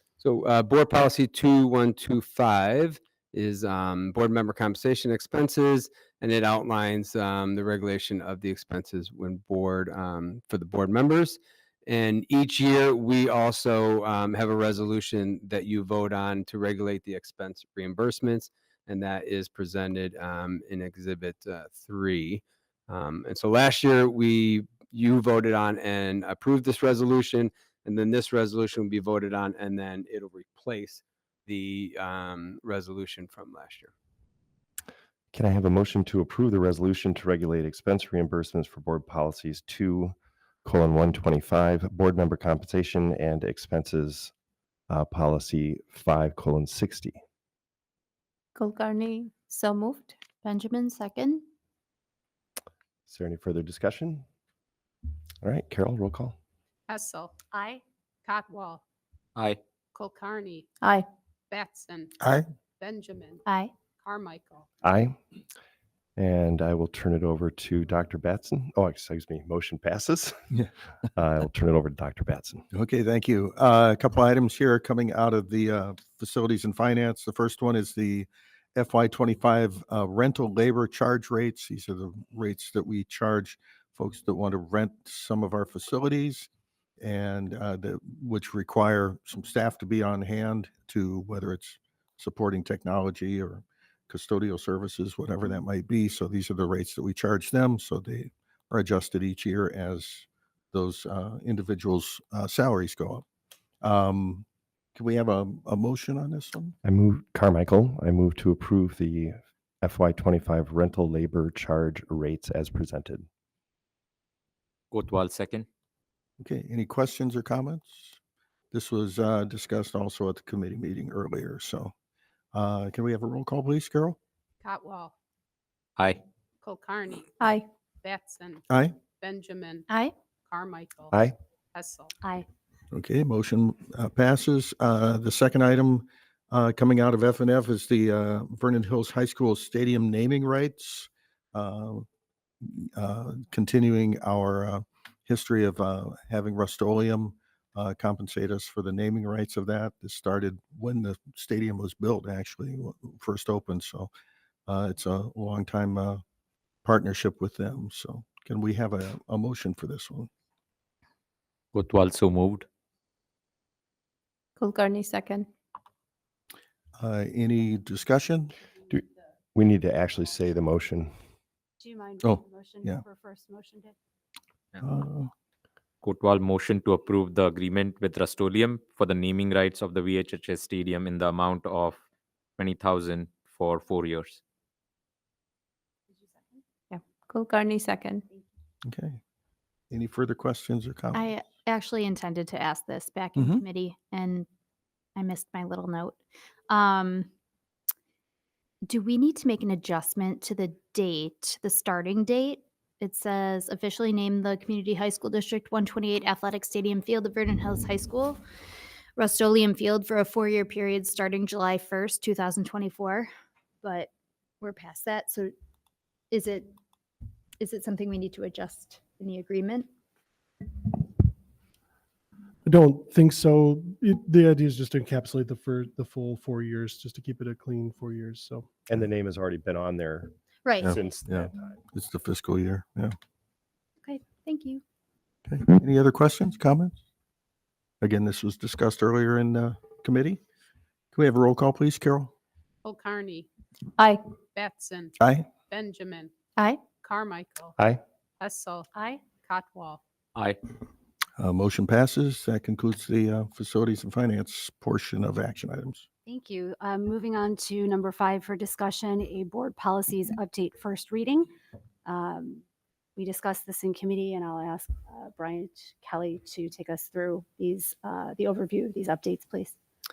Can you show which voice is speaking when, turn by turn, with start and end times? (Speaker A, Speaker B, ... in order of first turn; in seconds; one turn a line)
Speaker A: 0.2-33.9
Speaker B: 35.3-44.3
Speaker B: 44.9-47.2
Speaker C: 48.5-50.1
Speaker D: 50.4-51.4
Speaker B: 53.1-54.2
Speaker B: 55.4-56.4
Speaker E: 56.9-57.4
Speaker E: 58.2-58.8
Speaker E: 59.9-60.7
Speaker E: 61.5-62.1
Speaker F: 62.2-62.4
Speaker E: 62.8-63.4
Speaker D: 63.5-63.7
Speaker E: 64.0-64.7
Speaker B: 64.8-65.2
Speaker B: 66.2-70.6
Speaker B: 71.2-72.7
Speaker F: 72.7-86.5
Speaker F: 87.0-103.2
Speaker F: 103.8-106.7
Speaker B: 106.8-113.2
Speaker G: 114.9-115.7
Speaker F: 116.4-118.2
Speaker F: 118.7-121.9
Speaker F: 122.5-124.2
Speaker E: 124.6-125.1
Speaker E: 126.6-127.3
Speaker E: 128.0-128.6
Speaker F: 128.7-128.9
Speaker E: 129.2-129.8
Speaker E: 130.5-131.1
Speaker E: 131.7-132.1
Speaker F: 132.9-142.1
Speaker F: 142.6-154.1
Speaker F: 154.7-156.2
Speaker F: 156.8-160.3
Speaker G: 161.7-162.6
Speaker C: 164.6-165.5
Speaker F: 167.0-168.5
Speaker B: 168.9-171.1
Speaker H: 171.8-173.9
Speaker F: 172.2-173.0
Speaker F: 174.8-175.3
Speaker G: 176.0-182.0
Speaker G: 182.6-184.4
Speaker C: 186.9-188.2
Speaker F: 188.8-189.2
Speaker F: 189.9-191.3
Speaker D: 191.1-194.5
Speaker F: 193.3-193.6
Speaker D: 195.2-196.2
Speaker D: 196.7-197.3
Speaker D: 198.8-208.4
Speaker D: 209.2-213.3
Speaker D: 213.8-215.5
Speaker D: 216.3-216.7
Speaker D: 217.6-219.9
Speaker I: 222.6-228.7
Speaker B: 228.9-231.7
Speaker F: 230.8-233.1
Speaker D: 234.0-234.8
Speaker F: 235.5-237.0
Speaker F: 238.0-240.4
Speaker F: 241.1-242.3
Speaker E: 242.8-243.5
Speaker E: 244.5-245.1
Speaker F: 245.2-245.5
Speaker E: 245.7-246.3
Speaker E: 247.0-247.8
Speaker E: 248.4-250.0
Speaker H: 248.9-249.3
Speaker F: 251.4-256.0
Speaker H: 256.2-261.5
Speaker H: 262.0-262.6
Speaker H: 263.2-269.7